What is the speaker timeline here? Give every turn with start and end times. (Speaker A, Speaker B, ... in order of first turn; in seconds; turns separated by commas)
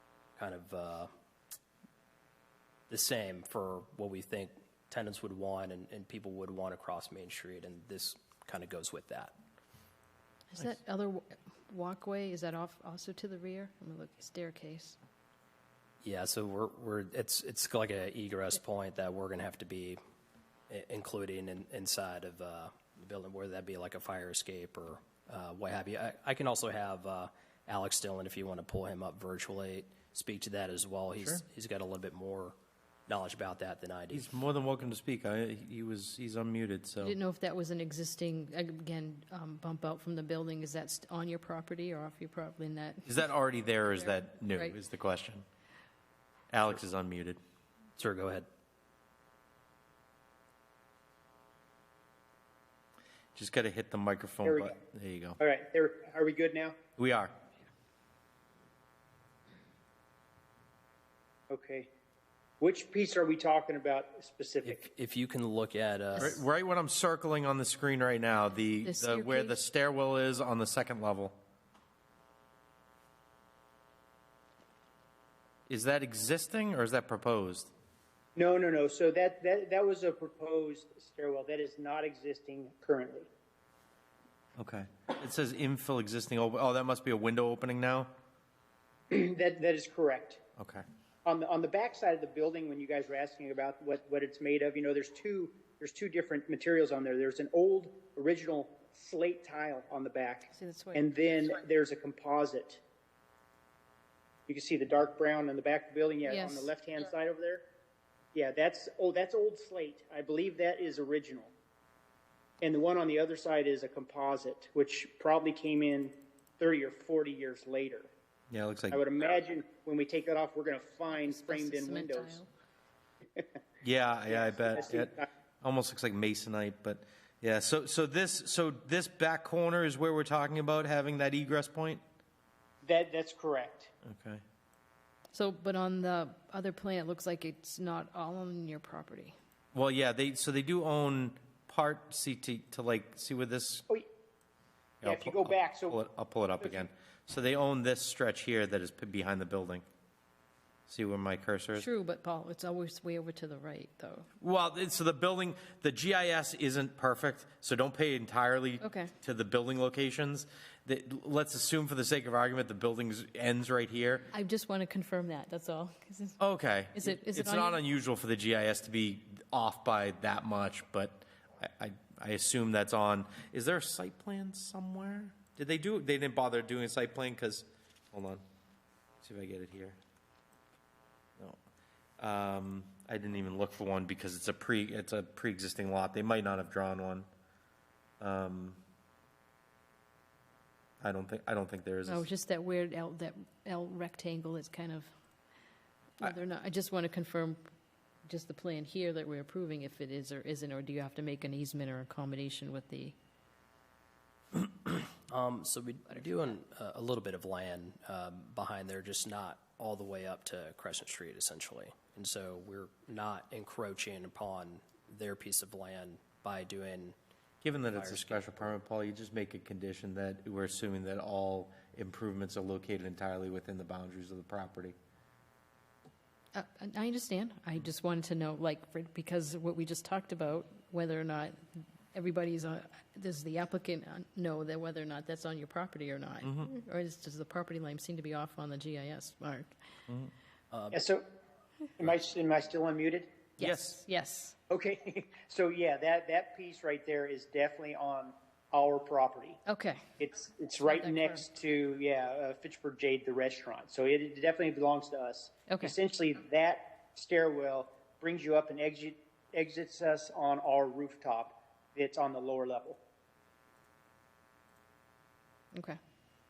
Speaker A: 0.4-1.1, Speaker A: 2.9-9.3, Speaker B: 10.5-15.0, Speaker A: 16.0-20.0, Speaker A: 20.7-32.6, Speaker A: 33.1-34.3, Speaker C: 34.1-37.2, Speaker B: 37.0-43.3, Speaker C: 43.1-45.5, Speaker B: 43.8-44.7, Speaker C: 46.5-47.4, Speaker A: 48.0-48.5, Speaker C: 53.4-55.4, Speaker D: 54.5-54.7, Speaker D: 55.4-56.8, Speaker C: 57.0-57.3, Speaker D: 61.5-61.9, Speaker D: 62.6-64.9, Speaker A: 64.6-66.4, Speaker C: 66.2-71.4, Speaker B: 68.8-69.6, Speaker C: 75.7-77.7, Speaker D: 78.4-83.3, Speaker C: 84.6-88.1, Speaker D: 89.1-90.4, Speaker C: 90.6-90.8, Speaker D: 91.2-102.8, Speaker B: 100.5-101.1, Speaker D: 104.5-107.6, Speaker B: 106.2-106.7, Speaker D: 108.3-111.5, Speaker D: 112.6-118.1, Speaker C: 118.5-119.0, Speaker D: 118.9-122.4, Speaker B: 121.1-122.5, Speaker C: 123.8-132.0, Speaker D: 124.3-125.3, Speaker D: 132.8-133.9, Speaker C: 134.0-134.4, Speaker B: 135.3-139.4, Speaker C: 139.7-143.8, Speaker D: 145.0-146.0, Speaker C: 145.0-149.8, Speaker C: 150.9-151.9, Speaker B: 151.8-154.3, Speaker C: 154.4-164.3, Speaker B: 158.8-159.1, Speaker B: 164.3-166.4, Speaker C: 166.4-178.4, Speaker B: 166.9-167.8, Speaker C: 179.2-180.0, Speaker C: 182.2-187.3, Speaker C: 188.2-188.8, Speaker C: 191.0-192.3, Speaker B: 192.1-195.1, Speaker B: 196.2-197.6, Speaker B: 198.3-203.2, Speaker A: 204.6-217.2, Speaker C: 217.6-224.9, Speaker A: 217.9-218.7, Speaker B: 226.5-239.7, Speaker C: 236.4-236.7, Speaker A: 240.7-241.0, Speaker D: 240.9-241.3, Speaker D: 242.0-243.3, Speaker B: 243.6-244.6, Speaker C: 243.6-244.0, Speaker D: 244.7-249.6, Speaker B: 249.7-250.0, Speaker D: 250.2-263.0, Speaker B: 250.8-251.4, Speaker B: 255.7-255.9, Speaker B: 265.7-266.0